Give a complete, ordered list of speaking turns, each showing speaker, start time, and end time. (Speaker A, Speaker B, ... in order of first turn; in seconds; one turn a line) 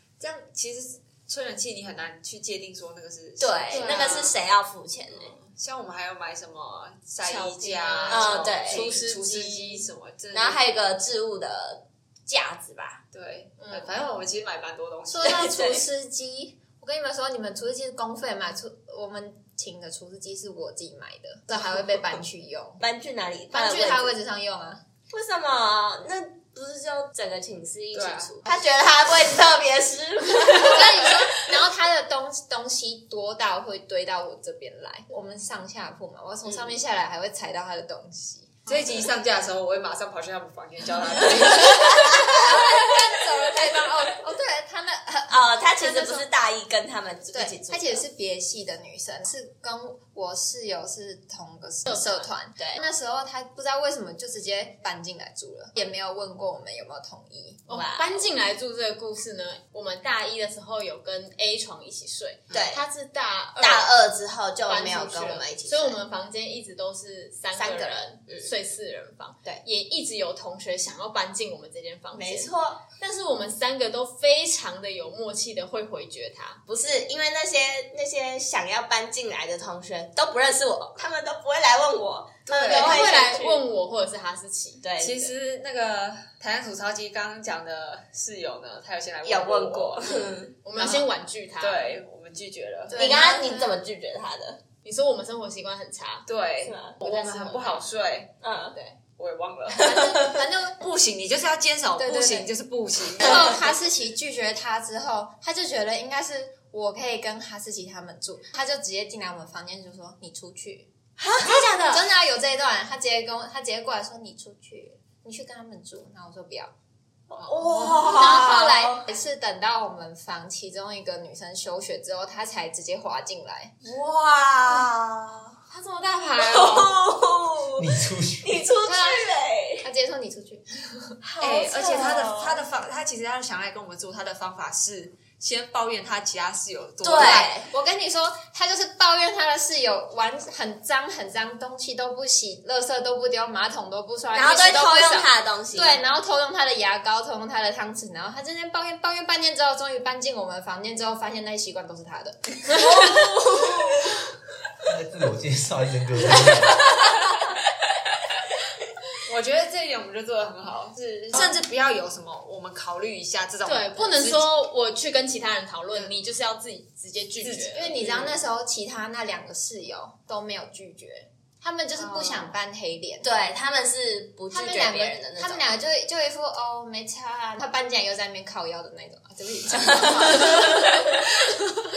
Speaker A: 0.2-4.3
Speaker B: 3.4-5.3
Speaker C: 3.7-4.4
Speaker A: 5.4-10.6
Speaker C: 7.2-9.8
Speaker B: 8.1-9.7
Speaker B: 10.3-13.0
Speaker A: 13.1-15.4
Speaker C: 13.6-14.1
Speaker D: 15.1-22.8
Speaker B: 15.2-15.8
Speaker B: 22.8-24.2
Speaker D: 23.5-24.8
Speaker B: 25.1-31.1
Speaker A: 27.9-28.3
Speaker D: 30.5-38.7
Speaker A: 38.6-42.4
Speaker D: 42.2-46.3
Speaker B: 45.3-48.0
Speaker D: 47.3-57.6
Speaker C: 51.9-52.3
Speaker B: 52.6-52.8
Speaker C: 57.7-63.9
Speaker B: 57.7-58.3
Speaker B: 62.5-62.8
Speaker B: 63.6-66.0
Speaker C: 64.7-76.6
Speaker B: 67.5-68.5
Speaker B: 72.2-72.8
Speaker B: 76.7-83.6
Speaker A: 82.5-83.1
Speaker C: 82.6-84.8
Speaker B: 84.8-85.3
Speaker A: 85.0-93.0
Speaker B: 89.2-90.5
Speaker C: 90.6-92.0
Speaker D: 92.9-93.8
Speaker B: 93.0-94.6
Speaker C: 94.8-96.3
Speaker A: 96.3-98.3
Speaker B: 96.7-97.1
Speaker C: 97.0-97.8
Speaker B: 98.4-98.8
Speaker A: 99.2-100.1
Speaker B: 99.8-100.4
Speaker C: 99.8-100.7
Speaker A: 100.8-103.6
Speaker D: 102.0-102.5
Speaker D: 103.2-110.9
Speaker B: 103.2-103.5
Speaker B: 111.2-112.0
Speaker C: 111.4-112.0
Speaker D: 111.9-116.7
Speaker A: 117.3-118.1
Speaker B: 117.4-119.1
Speaker D: 118.0-123.7
Speaker B: 123.8-125.6
Speaker C: 125.7-126.9
Speaker B: 126.4-127.9
Speaker E: 127.8-128.6
Speaker B: 128.4-129.9
Speaker D: 128.8-129.3
Speaker D: 129.8-131.2
Speaker B: 131.2-132.6
Speaker A: 131.4-137.7
Speaker B: 137.0-137.7
Speaker D: 137.7-152.8
Speaker B: 144.3-146.0
Speaker B: 152.7-154.0
Speaker E: 154.9-156.9
Speaker C: 156.9-157.1
Speaker A: 159.3-164.5
Speaker C: 163.6-168.0
Speaker A: 167.4-168.2
Speaker D: 167.7-173.3
Speaker B: 168.0-168.3
Speaker B: 172.0-172.5
Speaker B: 173.2-175.8
Speaker D: 174.5-181.3
Speaker B: 179.7-181.0